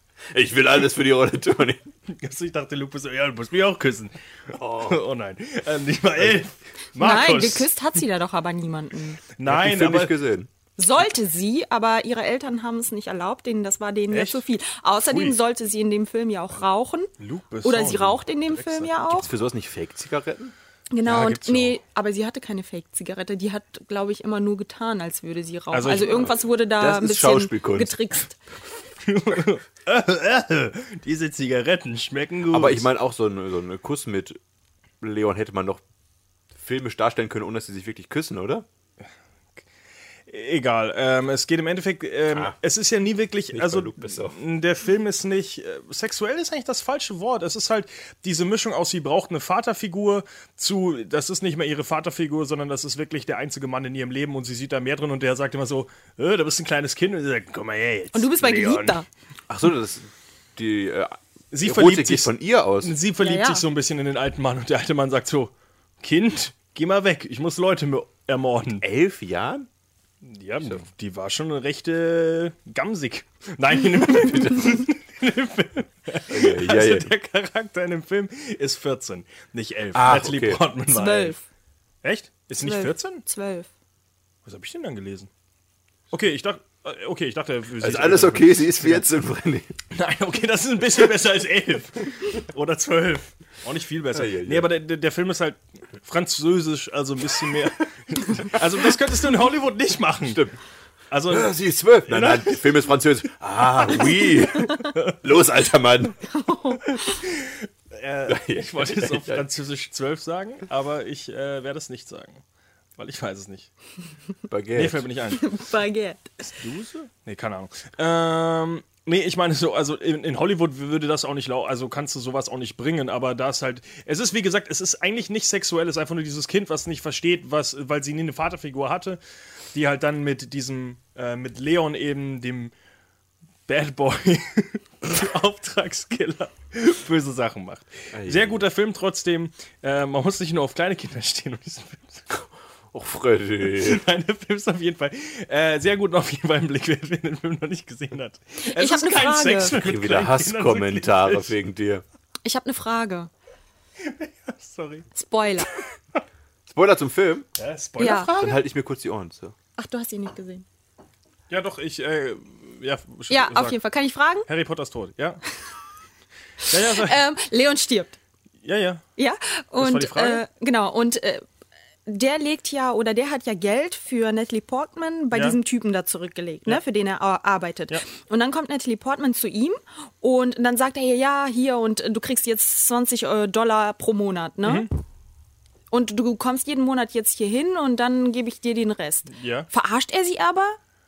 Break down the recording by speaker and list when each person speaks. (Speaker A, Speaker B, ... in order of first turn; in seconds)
Speaker A: 0.3-1.9, 4.5-5.0, 9.4-10.5, 19.1-20.5, 26.8-27.9, 32.5-34.4, 35.0-35.8, 36.5-38.6, 43.5-44.4, 59.5-62.9, 68.8-69.7, 74.2-74.5, 76.3-77.1, 79.9-80.6, 87.8-89.7, 94.1-94.7, 100.2-100.6, 101.3-106.2, 108.3-109.5, 114.5-115.1, 138.1-138.6, 142.3-144.0, 149.7-152.0, 156.7-157.5, 158.3-159.6
Speaker B: 2.1-7.7, 9.4-10.1, 14.1-14.4, 15.0-15.4, 17.2-19.1, 21.1-21.8, 25.7-26.4, 29.0-32.9, 40.3-59.0, 61.5-68.8, 70.2-81.4, 82.0-83.2, 84.4-85.3, 86.1-89.1, 89.9-100.4, 101.1-101.5, 102.1-102.6, 104.8-105.1, 106.9-112.4, 113.0-113.7, 114.7-115.4, 116.4-129.2, 129.7-132.7, 133.7-142.3, 143.7-151.6, 154.0-155.1, 157.6-158.6, 161.5-163.8, 164.5-165.4, 166.7-167.2, 168.6-169.0, 169.8-170.4, 175.3-175.6, 184.6-184.9, 189.3-189.7
Speaker C: 7.0-9.2, 10.8-17.1, 17.6-19.3, 20.9-28.4, 58.1-59.0, 63.2-63.6, 80.9-81.4, 82.6-83.7, 106.3-107.2, 115.4-116.3, 148.6-149.7, 152.4-153.3, 155.1-155.7, 158.0-158.3, 159.8-160.6, 163.3-164.4, 166.8-168.2, 169.2-171.4, 172.1-184.9, 185.9-190.8